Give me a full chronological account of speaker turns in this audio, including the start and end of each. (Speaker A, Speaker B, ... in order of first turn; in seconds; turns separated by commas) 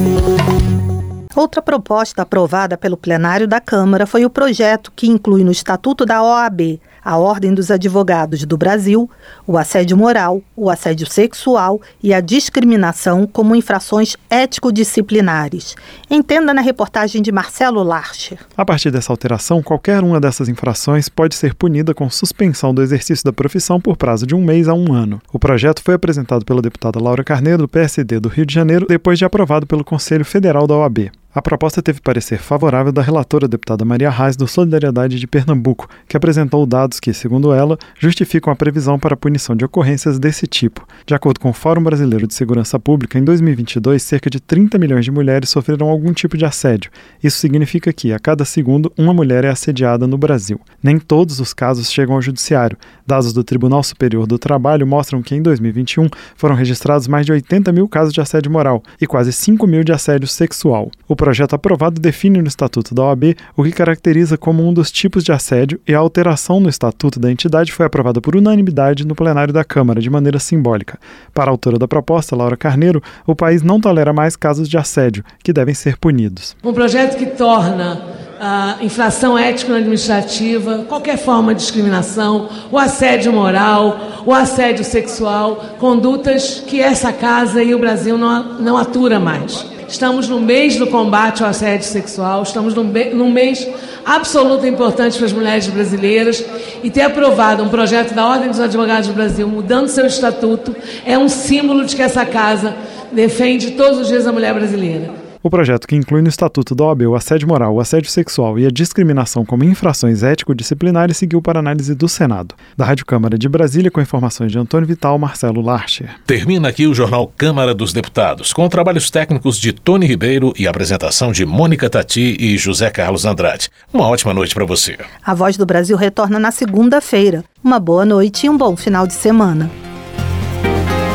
Speaker A: 1.4-18.4, Speaker B: 18.6-76.5, Speaker C: 76.6-105.1, Speaker B: 105.4-116.2, Speaker D: 116.3-125.0, Speaker A: 125.2-129.7